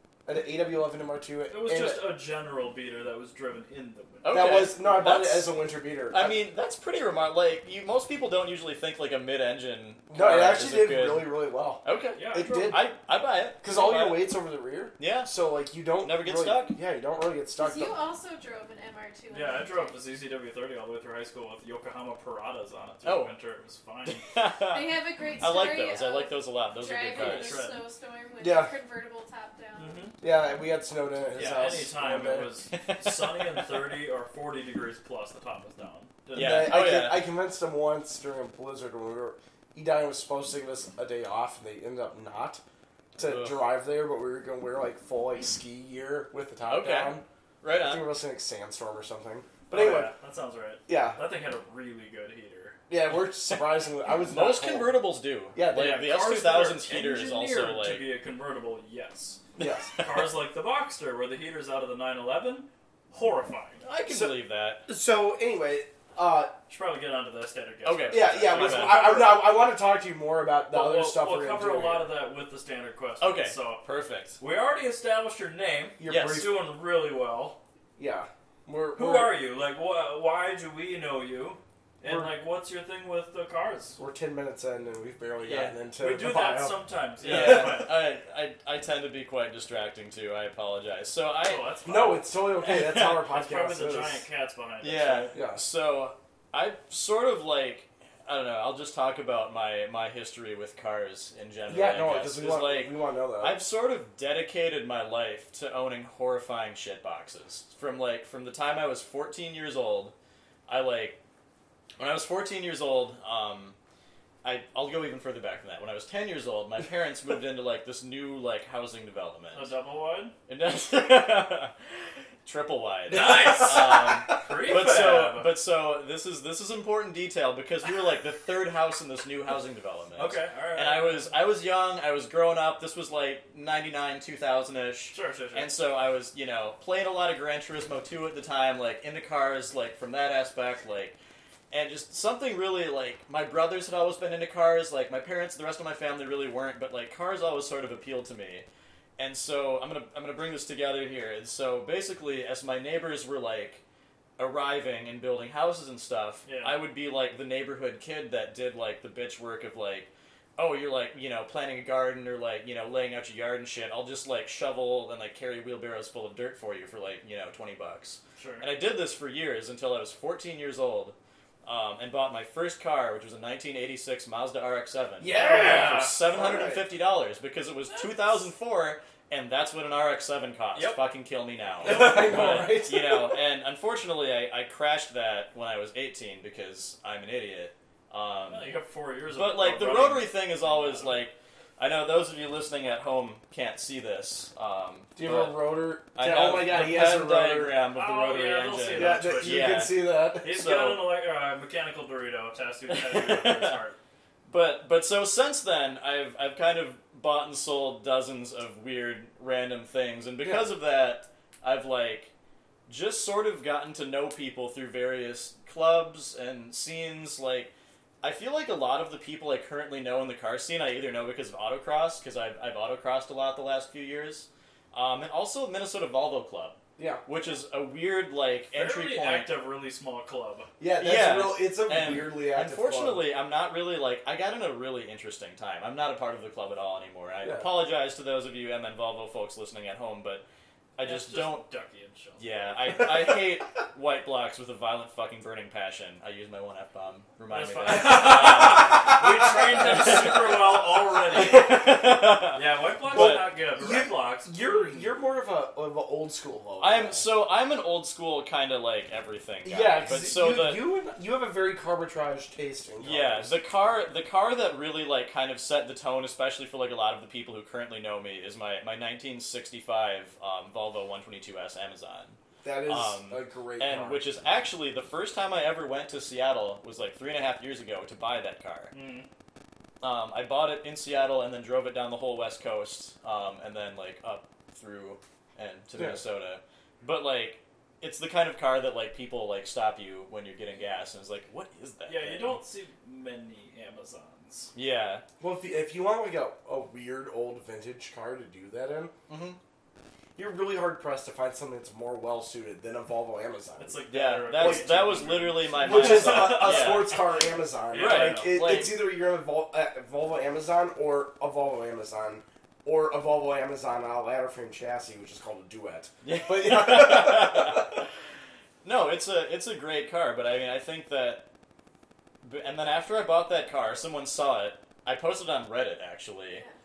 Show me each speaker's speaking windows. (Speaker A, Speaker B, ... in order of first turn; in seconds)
Speaker A: 0.3-2.0, 4.3-6.4, 10.1-12.8, 13.6-18.0, 28.4-28.7, 30.2-32.5, 36.4-42.6, 43.2-50.1, 50.9-51.2, 52.9-54.9, 55.5-56.1, 59.6-59.9, 64.1-66.5, 68.1-72.1, 76.0-76.6, 78.0-79.3, 82.0-82.3, 84.0-87.9, 91.8-94.2, 95.3-95.6, 101.7-103.6, 123.1-124.4, 175.2-176.8, 181.8-183.3, 195.2-197.8, 198.9-200.6, 210.4-210.7, 227.0-227.2, 230.8-233.2, 248.9-250.3, 253.1-257.2, 259.6-263.6, 272.6-274.3, 286.0-286.2, 295.4-299.1, 300.4-304.0, 304.5-305.2, 305.8-318.0
Speaker B: 1.5-4.6, 12.2-12.8, 13.7-14.2, 19.3-24.3, 27.1-27.9, 29.8-30.2, 31.3-36.8, 49.7-52.8, 55.7-59.4, 60.0-63.9, 66.7-69.5, 70.7-73.8, 74.4-77.6, 79.0-84.0, 86.0-88.0, 91.4-92.3, 93.0-95.3, 119.5-120.3, 123.1-125.6, 130.2-131.3, 135.1-135.7, 156.5-156.8, 168.4-168.7, 175.3-176.2, 177.9-178.5, 180.8-181.0, 181.8-182.8, 188.5-191.2, 197.9-204.0, 228.7-230.7, 241.0-243.1, 247.5-255.1, 278.9-279.3, 292.1-294.7, 303.8-308.8
Speaker C: 4.2-5.5, 6.1-13.6, 15.0-15.3, 16.0-16.8, 23.0-23.3, 24.1-27.6, 32.7-33.7, 36.3-37.2, 43.2-43.7, 46.7-48.1, 54.2-58.1, 59.6-60.2, 63.8-64.9, 67.8-69.0, 73.2-74.4, 76.0-76.5, 85.4-85.8, 87.2-91.7, 92.6-93.2, 94.8-110.1, 110.7-111.2, 112.0-113.8, 114.4-119.7, 120.5-121.8, 122.5-141.2, 141.7-148.7, 149.2-153.8, 154.4-188.7, 189.3-201.0, 202.9-203.8, 204.5-212.3, 212.9-217.7, 218.2-229.5, 231.0-240.4, 241.0-241.6, 242.4-249.2, 249.8-250.4, 251.3-253.5, 256.8-260.8, 263.0-278.9, 280.0-292.6, 294.8-295.2, 299.3-299.6, 304.1-307.2, 307.9-309.0, 316.2-318.1, 318.8-321.5, 322.4-326.6
Speaker D: 17.6-20.0, 24.7-30.1